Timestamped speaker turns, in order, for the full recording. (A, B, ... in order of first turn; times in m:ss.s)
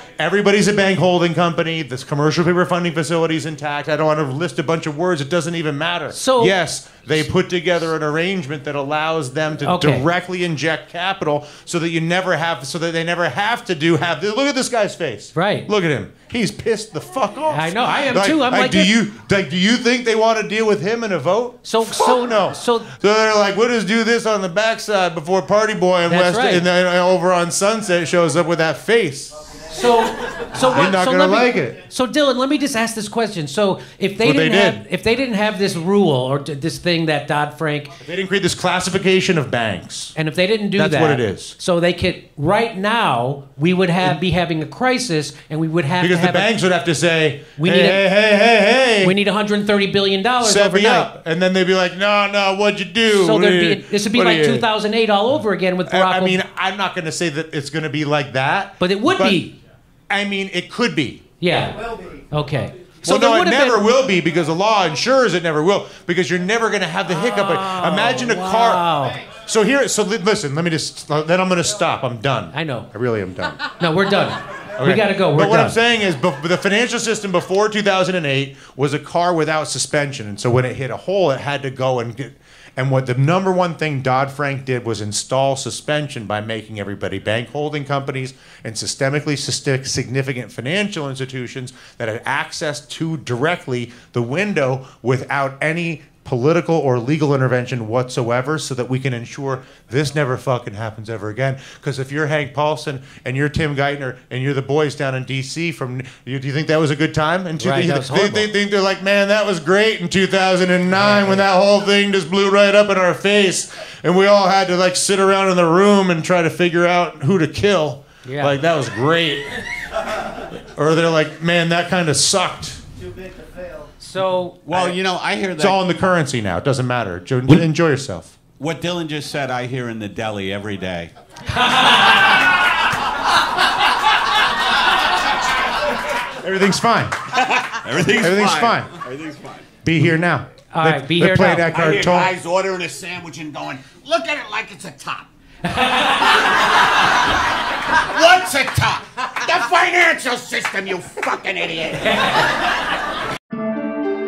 0:00.2-0:29.4 A
0:06.1-0:06.6 B
0:09.6-0:10.1 B
0:15.4-0:15.7 B
0:17.5-0:18.9 B
0:21.6-0:22.9 B
0:26.1-0:26.6 B
0:29.7-0:38.0 B
0:30.6-0:31.8 A
0:34.2-0:34.8 A
0:38.0-0:40.2 A
0:40.2-0:46.5 B
0:40.8-0:41.6 A
0:46.0-0:49.2 A
0:47.6-0:48.0 B
0:49.0-0:51.1 B
0:50.4-0:54.7 A
0:53.1-0:56.4 B
0:55.9-0:59.4 A
0:58.8-0:59.6 B
1:00.1-1:01.2 A
1:01.4-1:03.8 B
1:03.0-1:13.6 A
1:07.1-1:09.2 B
1:12.5-1:12.9 B
1:13.7-1:15.8 B
1:14.8-1:59.6 A
1:47.6-1:48.5 B
1:50.9-1:51.5 B
1:58.2-1:58.6 B
2:00.3-2:02.8 A
2:04.0-2:04.6 B
2:04.6-2:05.8 C
2:05.6-2:08.4 A
2:08.6-2:11.1 C
2:11.5-2:12.3 B
2:16.4-2:17.3 A
2:17.4-2:19.6 C
2:18.1-2:19.0 A
2:19.8-2:22.3 A
2:20.7-2:21.8 B
2:21.7-2:25.3 C
2:25.6-2:26.4 B
2:28.0-2:32.2 C